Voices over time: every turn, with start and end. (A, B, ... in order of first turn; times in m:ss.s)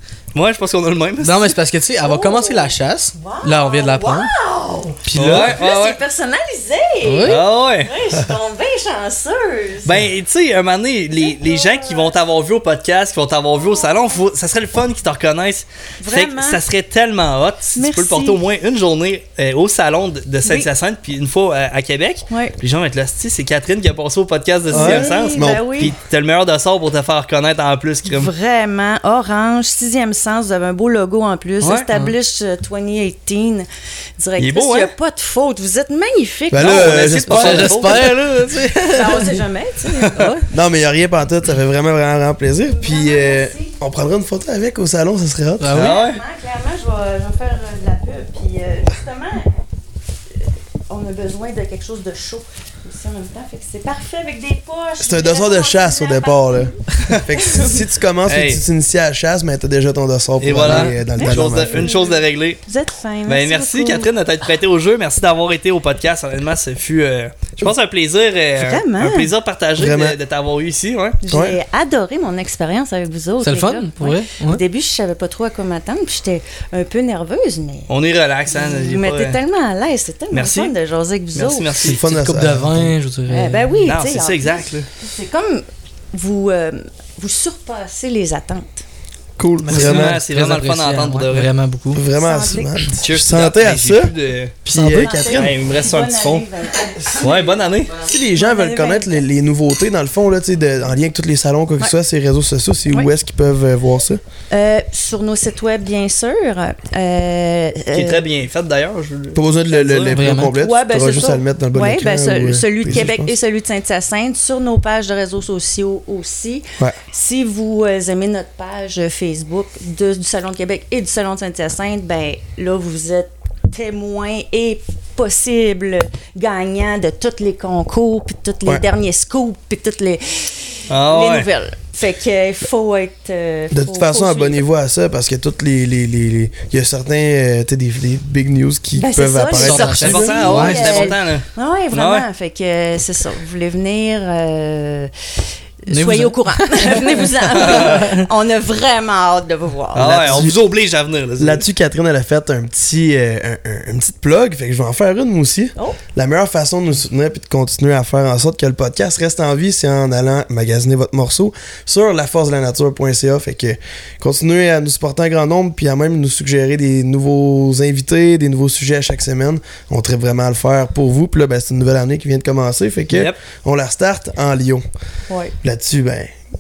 0:00.3-0:01.6 A
0:01.2-0:04.3 B
0:02.0-0:10.0 C
0:05.1-0:05.6 D
0:05.1-0:06.0 A
0:07.0-0:07.4 B
0:07.2-0:07.9 A
0:09.8-0:28.3 A
0:11.2-0:12.1 C
0:16.0-0:16.6 C
0:17.8-0:18.4 C
0:20.4-0:20.7 C
0:24.7-0:26.0 C
0:24.7-0:25.7 D
0:28.1-0:37.1 C
0:31.6-0:31.9 A
0:34.4-0:34.9 A
0:36.5-0:38.0 D
0:36.6-0:38.4 A
0:37.3-0:40.5 B
0:38.9-0:40.4 C
0:40.5-0:45.7 D
0:42.8-0:43.8 C
0:45.6-0:45.9 B
0:45.7-0:46.2 A
0:45.7-0:49.5 C
0:50.4-0:56.8 C
0:55.0-1:01.9 D
0:57.3-0:57.8 C
0:58.3-0:58.6 A
1:00.4-1:02.6 A
1:00.7-1:04.1 C
1:03.3-1:11.2 A
1:08.6-1:09.3 C
1:09.8-1:10.2 D
1:11.2-1:17.9 C
1:11.3-1:11.6 D
1:13.4-1:14.6 B
1:17.9-1:19.4 A
1:18.5-1:21.8 C
1:20.3-1:20.7 A
1:21.3-1:22.0 A
1:21.8-1:22.9 D
1:22.0-1:23.8 B
1:23.3-1:28.8 C
1:23.8-1:24.9 A
1:29.4-1:31.5 A
1:29.6-1:30.2 D
1:29.6-1:32.0 B
1:31.9-1:34.1 D
1:32.2-1:33.0 C
1:33.0-1:34.6 A
1:34.6-1:35.6 D
1:34.7-1:35.1 B
1:34.8-1:37.5 C
1:35.2-1:36.5 A
1:37.0-1:37.3 D
1:37.2-1:38.0 A
1:37.9-1:44.2 D
1:38.4-1:39.2 C
1:44.5-1:48.2 C
1:47.9-1:50.2 A
1:49.4-1:53.3 D
1:50.1-1:50.5 B
1:50.5-2:14.6 C
2:10.9-2:11.5 A
2:13.7-2:20.6 D
2:19.0-2:25.1 C
2:19.6-2:21.1 B
2:19.8-2:22.3 A
2:25.8-2:30.3 C
2:25.9-2:26.3 B
2:27.6-2:28.1 A
2:27.9-2:28.2 B
2:30.0-2:31.7 A
2:30.0-2:30.6 D
2:31.4-2:54.8 D
2:53.1-2:53.4 A
2:55.3-2:55.6 C
2:55.6-2:56.4 D